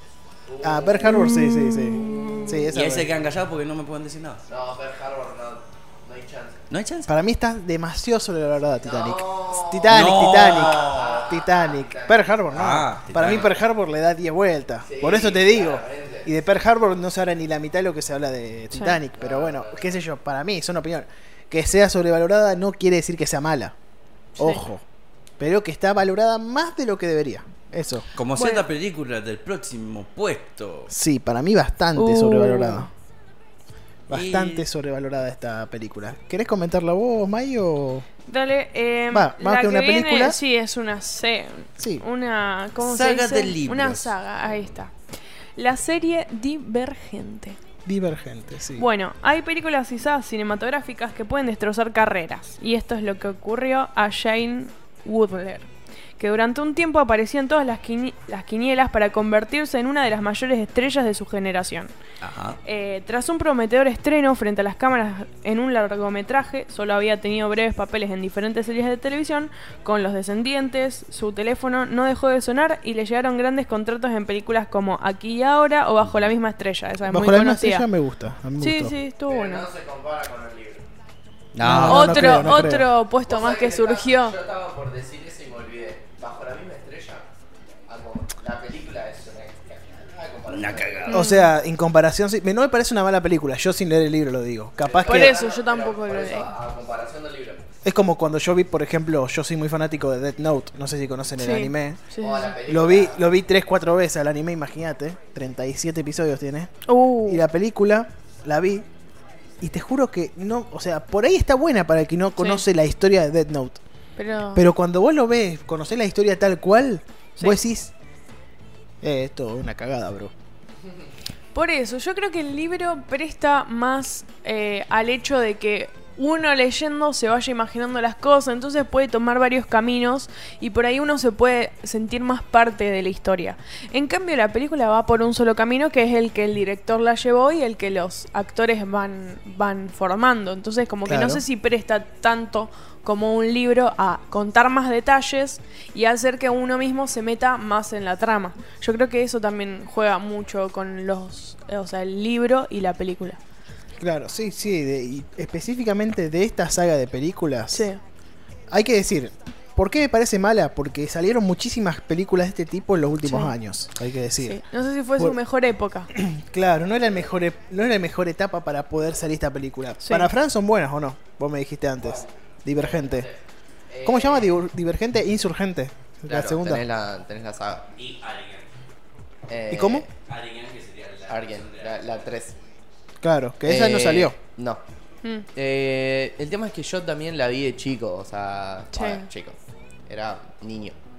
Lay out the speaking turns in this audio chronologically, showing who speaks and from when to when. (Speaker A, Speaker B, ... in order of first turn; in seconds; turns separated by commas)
Speaker A: 0.5-1.3, Speaker B: 0.6-3.1, Speaker C: 2.1-4.4, Speaker A: 4.5-6.6, Speaker C: 6.7-7.1, Speaker B: 7.1-23.7, Speaker A: 8.8-12.3, Speaker C: 9.9-11.2, Speaker C: 12.5-13.5, Speaker A: 14.8-16.3, Speaker D: 18.7-19.0, Speaker A: 19.2-19.9, Speaker D: 24.4-24.6, Speaker B: 24.4-24.8, Speaker B: 25.4-28.1, Speaker C: 28.1-30.9, Speaker D: 28.4-28.6, Speaker B: 30.9-32.9, Speaker D: 31.9-32.9, Speaker B: 34.1-38.0, Speaker C: 34.1-34.6, Speaker D: 38.2-44.9, Speaker B: 39.1-40.4, Speaker B: 41.8-42.0, Speaker C: 42.8-44.1, Speaker D: 45.5-47.6, Speaker B: 47.8-48.9, Speaker D: 48.8-61.9, Speaker C: 62.2-62.6, Speaker D: 62.6-77.9, Speaker B: 77.0-78.9, Speaker D: 78.6-79.7, Speaker A: 79.3-80.8, Speaker C: 81.5-82.6, Speaker B: 81.6-82.9, Speaker D: 81.8-84.3, Speaker A: 83.2-87.3, Speaker A: 87.9-91.1, Speaker C: 90.5-91.3, Speaker D: 91.1-91.5, Speaker B: 91.1-95.3, Speaker A: 94.8-97.6, Speaker D: 95.0-96.5, Speaker B: 97.8-102.0, Speaker D: 101.4-102.5, Speaker A: 102.2-103.2, Speaker B: 102.6-106.7, Speaker D: 106.8-107.4, Speaker B: 107.2-108.9, Speaker B: 109.6-113.8, Speaker D: 112.4-112.6, Speaker D: 114.2-114.6, Speaker B: 114.5-117.9, Speaker B: 119.0-120.3, Speaker D: 121.5-153.4, Speaker B: 141.1-141.4, Speaker B: 154.0-157.9, Speaker D: 157.7-158.0, Speaker B: 158.7-164.6, Speaker D: 163.2-163.5, Speaker D: 164.4-166.1, Speaker B: 166.1-173.3, Speaker D: 170.0-170.3, Speaker A: 172.0-174.6, Speaker B: 174.0-176.8, Speaker A: 176.3-177.9, Speaker C: 177.9-178.7, Speaker A: 179.5-180.1, Speaker B: 179.7-180.0, Speaker C: 180.2-182.2, Speaker A: 181.3-182.6, Speaker B: 183.2-184.3, Speaker A: 183.6-184.8, Speaker A: 185.5-189.6, Speaker D: 188.9-189.3, Speaker A: 190.1-191.0